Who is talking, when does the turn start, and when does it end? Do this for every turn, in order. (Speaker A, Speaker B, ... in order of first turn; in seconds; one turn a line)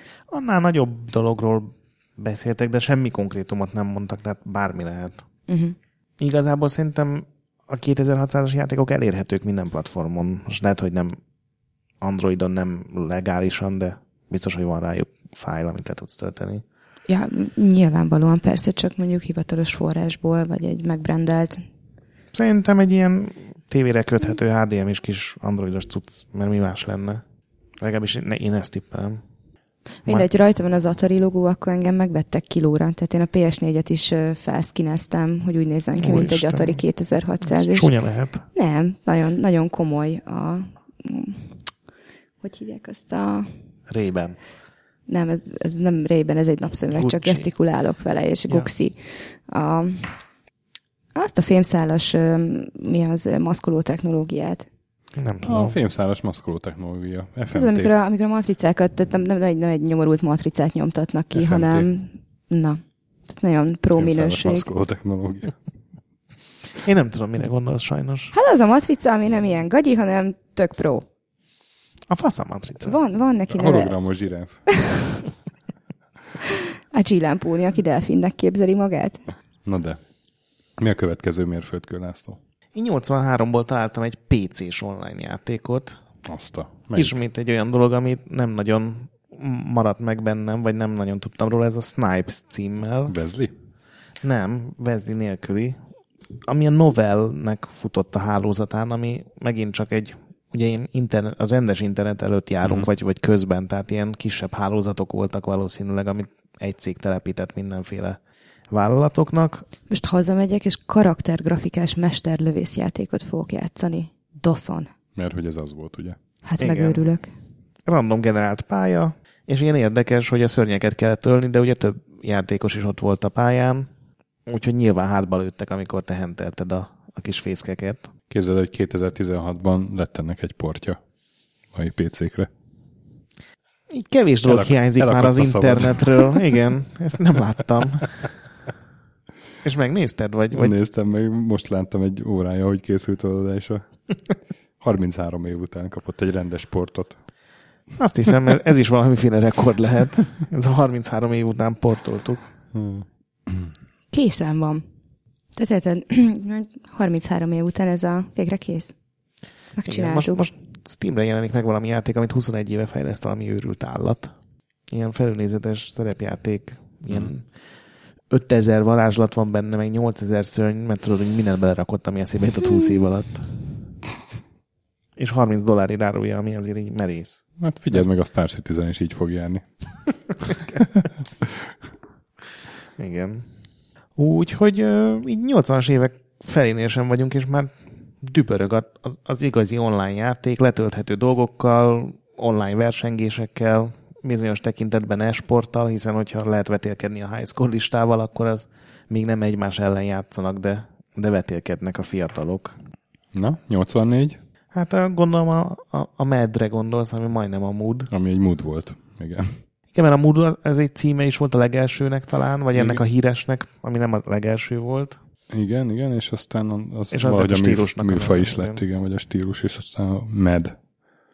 Speaker A: 0.3-5.2
Speaker B: 5.5-5.8
Speaker A: 6.2-11.2
Speaker A: 12.0-16.6
Speaker B: 17.1-21.6
Speaker A: 22.3-27.2
Speaker A: 27.8-29.2
Speaker B: 30.0-37.9
Speaker A: 36.0-36.8
Speaker A: 37.4-38.4
Speaker B: 38.5-41.5
Speaker B: 42.4-43.5
Speaker A: 43.9-44.4
Speaker B: 45.1-50.2
Speaker A: 46.9-47.5
Speaker B: 51.1-54.7
Speaker A: 55.2-55.8
Speaker C: 55.5-57.9
Speaker B: 57.5-64.7
Speaker C: 61.3-61.9
Speaker C: 64.0-65.6
Speaker A: 66.8-68.3
Speaker B: 68.3-71.1
Speaker A: 72.1-73.0
Speaker B: 72.8-74.0
Speaker C: 73.5-74.8
Speaker B: 76.5-79.2
Speaker C: 79.7-80.0
Speaker C: 80.8-82.4
Speaker A: 82.8-86.0
Speaker C: 86.2-87.2
Speaker A: 87.0-93.2
Speaker C: 93.1-93.5
Speaker A: 94.2-95.8
Speaker A: 96.5-108.2
Speaker A: 108.7-109.7
Speaker B: 109.9-114.9
Speaker C: 115.2-116.2
Speaker B: 116.5-117.3
Speaker A: 116.6-117.0
Speaker A: 117.9-123.9
Speaker A: 124.5-128.1
Speaker C: 128.3-131.0
Speaker C: 131.7-132.5
Speaker A: 133.9-138.2
Speaker C: 134.4-136.4
Speaker A: 139.6-140.8
Speaker C: 140.6-144.2
Speaker C: 144.8-147.2
Speaker A: 148.0-152.5
Speaker C: 152.7-153.7
Speaker B: 154.1-154.8
Speaker B: 155.6-158.9
Speaker B: 159.8-160.4
Speaker A: 159.9-164.3
Speaker A: 164.9-167.5
Speaker A: 168.3-173.5
Speaker A: 175.2-178.1
Speaker C: 177.6-179.7
Speaker C: 180.8-181.7
Speaker A: 183.0-183.5
Speaker A: 184.2-202.7
Speaker C: 203.3-204.4
Speaker A: 204.7-208.1
Speaker C: 208.1-209.6
Speaker A: 209.9-215.2
Speaker C: 212.7-213.0
Speaker C: 215.5-220.8
Speaker A: 217.1-218.8